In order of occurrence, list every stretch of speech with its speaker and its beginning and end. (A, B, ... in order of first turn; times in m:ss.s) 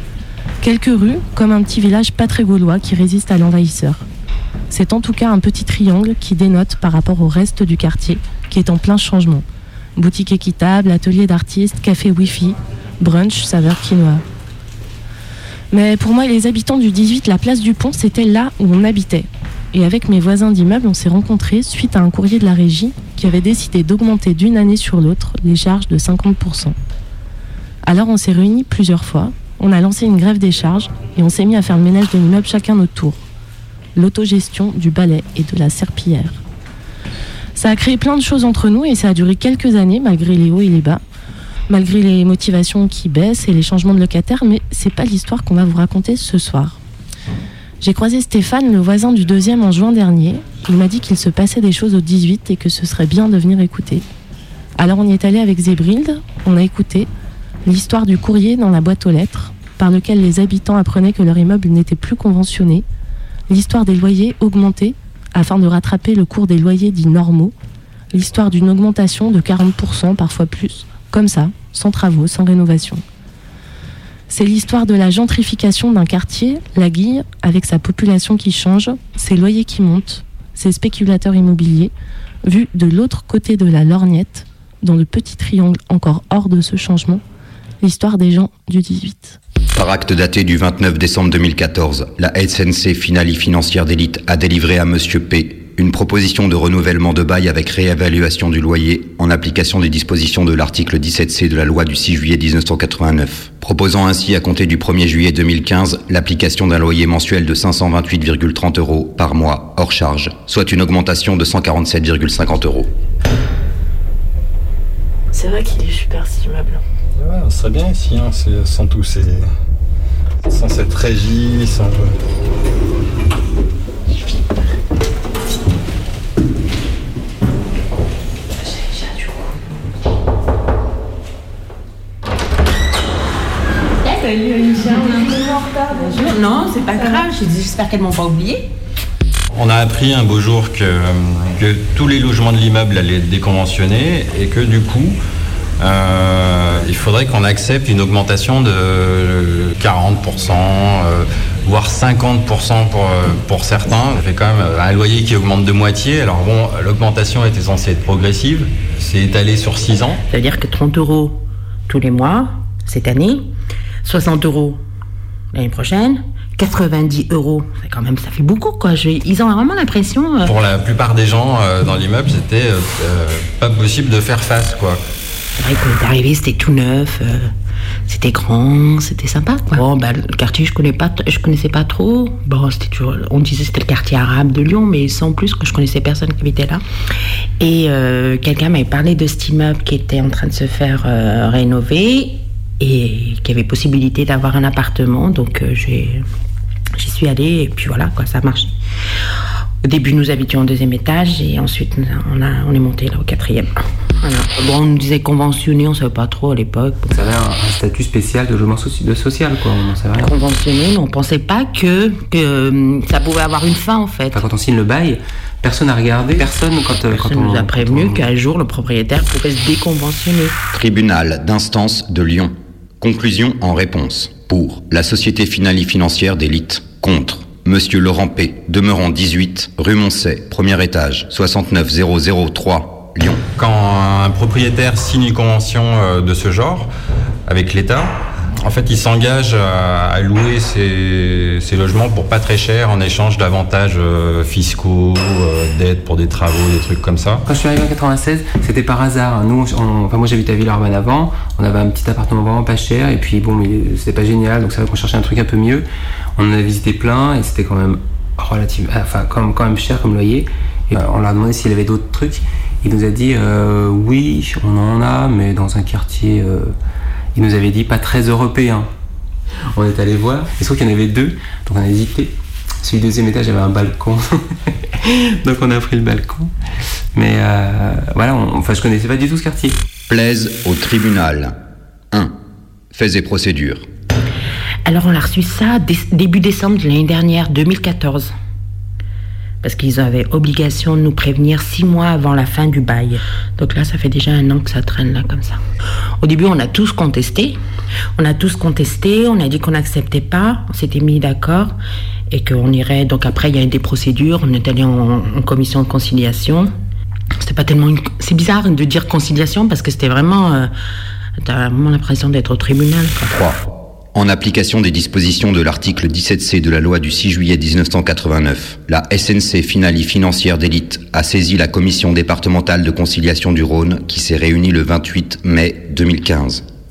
0:00.6-0:04.0 A
0:04.7-0:09.4 A
0:10.0-0:14.2 A
0:15.7-0:26.8 A
0:27.8-0:33.2 A
0:33.9-0:36.4 A
0:37.6-0:41.0 A
0:41.7-0:46.8 A
0:47.8-0:54.0 A
0:54.8-0:57.1 A
0:57.6-1:02.8 A
1:03.5-1:07.5 A
1:08.1-1:13.0 A
1:14.3-1:21.9 A
1:22.4-1:27.2 A
1:27.8-1:29.4 A
1:29.8-1:52.9 B
1:55.3-1:56.8 A
1:57.2-1:59.5 C
2:00.5-2:02.1 C
2:14.8-2:15.4 D
2:15.9-2:18.6 D
2:19.5-2:25.2 C
2:25.8-2:40.2 C
2:40.3-2:43.5 D
2:44.0-2:44.8 D
2:45.5-2:50.5 D
2:50.4-2:55.0 C
2:55.6-2:57.5 D
2:58.0-3:06.8 D
3:07.6-3:16.2 D
3:17.0-3:18.7 D
3:19.8-3:27.2 D
3:27.1-3:30.3 E
3:30.1-3:34.4 D
3:34.3-3:38.3 E
3:36.4-3:40.6 D
3:40.7-3:53.4 B
3:53.6-3:56.9 C
3:57.4-4:07.4 C
4:07.4-4:15.8 E
4:16.4-4:26.7 E
4:27.3-4:28.9 E
4:29.7-4:34.4 E
4:35.0-4:36.5 E
4:37.1-4:39.8 E
4:40.1-4:41.5 B
4:42.1-4:42.4 B
4:42.9-4:43.8 B
4:44.8-4:48.3 D
4:49.6-4:55.6 D
4:56.2-4:57.6 D
4:58.2-5:01.8 D
5:02.3-5:06.7 D
5:07.4-5:10.7 D
5:11.4-5:13.4 D
5:13.3-5:13.6 B
5:14.1-5:26.6 B